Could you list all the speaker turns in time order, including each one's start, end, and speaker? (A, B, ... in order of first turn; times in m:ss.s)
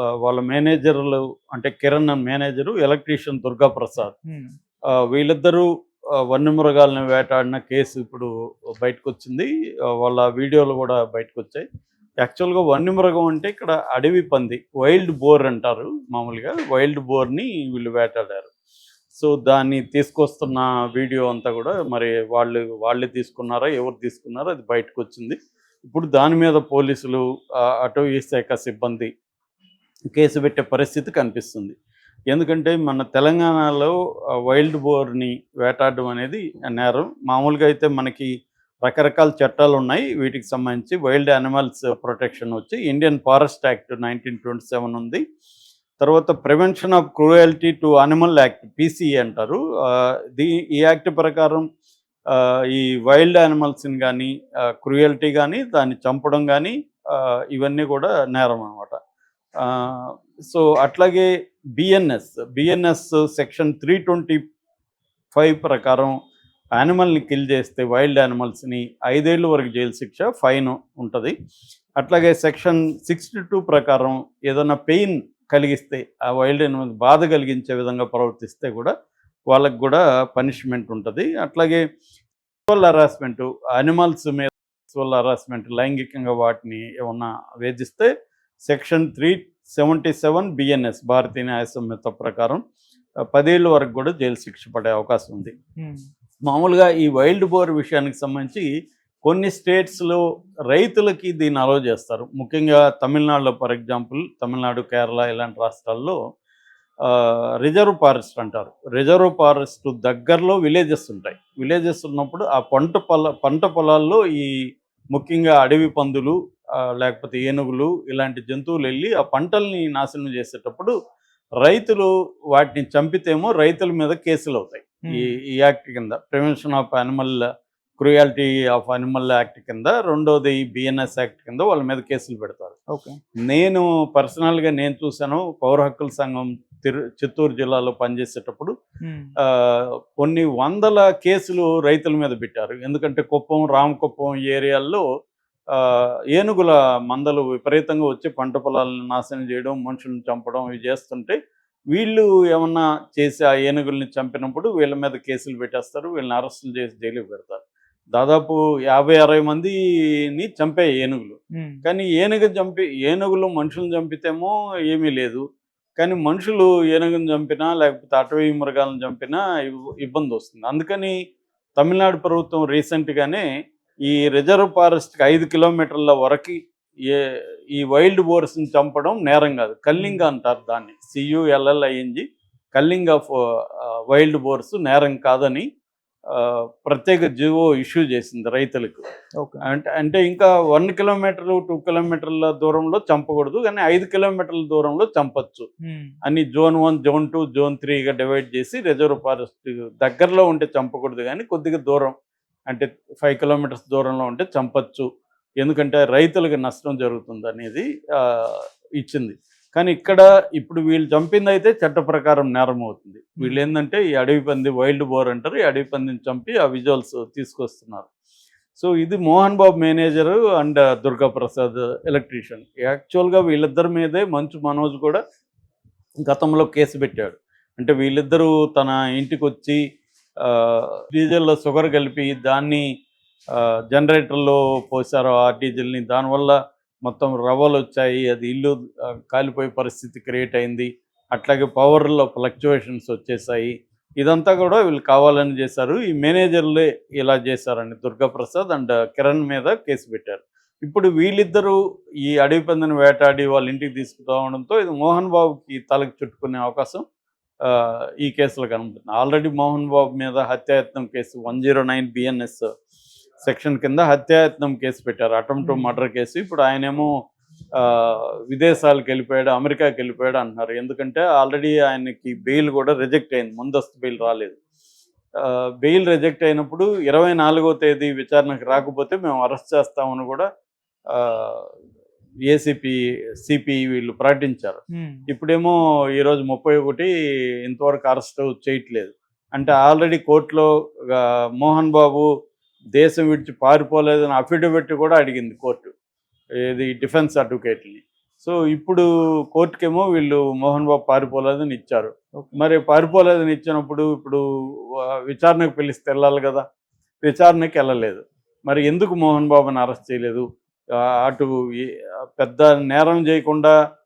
0:00.2-0:04.1 A
0:04.3-0:04.5 B
0:04.9-0:05.7 A
0:06.3-0:08.3 A
0:08.8-0:11.6 A
0:12.2-0:18.5 A
0:19.2-0:29.1 A
0:30.1-0:31.8 A
0:32.3-0:33.9 A
0:34.4-0:38.3 A
0:38.8-0:45.2 A
0:46.0-0:51.6 A
0:52.3-0:59.0 A
0:59.6-1:04.4 A
1:05.3-1:06.2 A
1:06.8-1:11.3 A
1:12.0-1:18.9 A
1:19.5-1:21.8 A
1:22.7-1:28.1 A
1:28.7-1:32.6 A
1:33.3-1:35.5 A
1:35.8-1:36.0 B
1:36.4-1:38.6 A
1:39.2-1:46.2 A
1:47.0-1:54.5 A
1:55.1-2:00.9 A
2:01.6-2:07.4 A
2:08.0-2:12.7 A
2:12.9-2:13.2 B
2:13.4-2:18.7 A
2:19.0-2:19.3 B
2:19.4-2:25.0 A
2:25.7-2:31.4 A
2:31.9-2:37.6 A
2:38.1-2:39.8 A
2:40.3-2:45.4 A
2:41.6-2:41.8 B
2:46.0-2:51.1 A
2:51.8-2:53.4 A
2:54.1-2:56.6 A
2:57.1-3:05.7 A
3:06.3-3:09.1 A
3:09.6-3:15.7 A
3:15.8-3:16.1 B
3:16.2-3:22.2 A
3:22.7-3:25.1 A
3:25.6-3:38.1 A
3:38.8-3:45.2 A
3:46.2-3:49.8 A
3:50.4-3:52.8 A
3:53.5-4:17.0 A
4:17.6-4:22.7 A
4:23.4-4:27.1 A
4:25.6-4:26.0 B
4:27.8-4:34.6 A
4:35.4-4:40.4 A
4:41.1-4:41.7 A
4:42.5-4:47.1 A
4:44.9-4:45.2 B
4:47.6-4:52.3 A
4:52.9-4:55.9 A
4:56.6-5:06.6 A
5:07.2-5:10.4 A
5:11.0-5:13.7 A